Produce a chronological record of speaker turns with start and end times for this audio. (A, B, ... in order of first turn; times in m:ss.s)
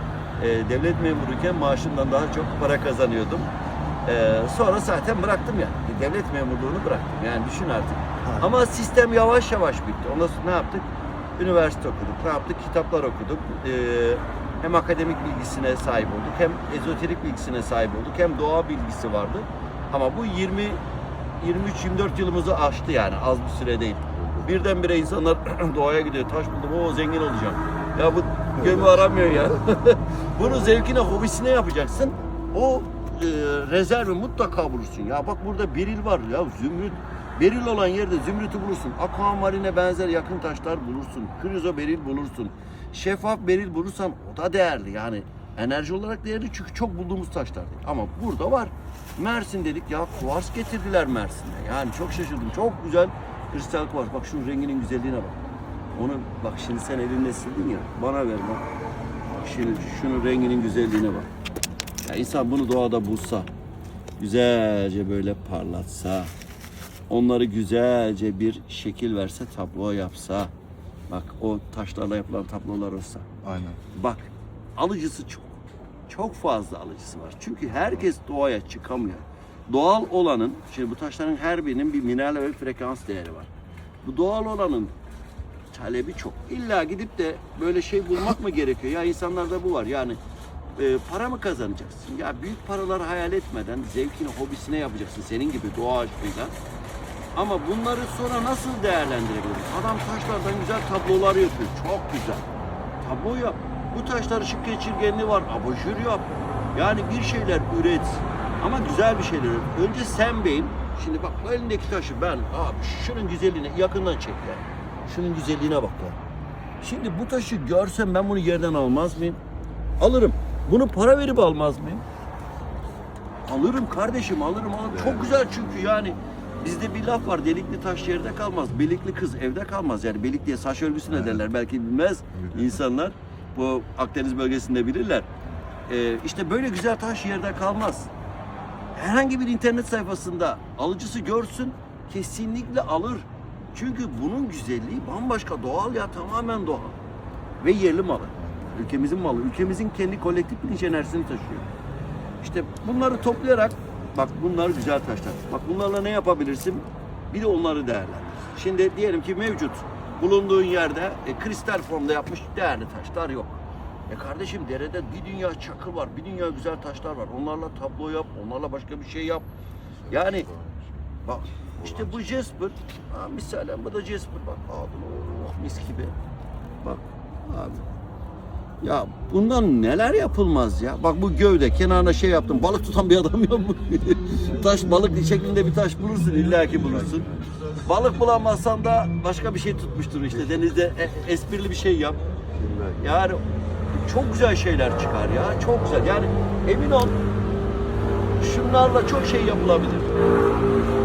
0:00.4-0:03.5 A
0:04.0-0:20.8 A
0:08.2-0:08.5 B
0:21.4-0:55.4 A
0:28.6-0:29.0 B
0:55.9-0:58.6 A
0:59.3-1:01.3 A
1:02.0-1:03.5 A
1:04.2-1:06.3 A
1:07.1-1:10.5 A
1:11.1-1:13.3 A
1:13.4-1:13.8 B
1:13.9-1:23.5 A
1:24.0-1:24.9 A
1:25.7-1:30.2 A
1:30.8-1:36.6 A
1:37.4-1:42.4 A
1:43.0-1:56.2 A
1:56.8-1:59.4 A
2:00.0-2:02.0 A
2:03.5-2:15.3 A
2:11.1-2:11.4 B
2:12.3-2:12.7 B
2:15.9-2:18.1 A
2:19.0-2:27.0 A
2:27.6-2:31.7 A
2:28.4-2:28.7 B
2:32.4-2:49.5 A
2:50.0-2:51.0 B
2:50.1-2:50.5 A
2:51.2-2:56.1 A
2:51.8-2:52.2 B
2:56.8-2:57.8 A
2:58.8-3:07.3 A
3:06.5-3:07.5 B
3:07.8-3:12.2 A
3:12.5-3:13.0 B
3:13.0-3:13.4 A
3:13.9-3:17.2 A
3:18.4-3:20.2 A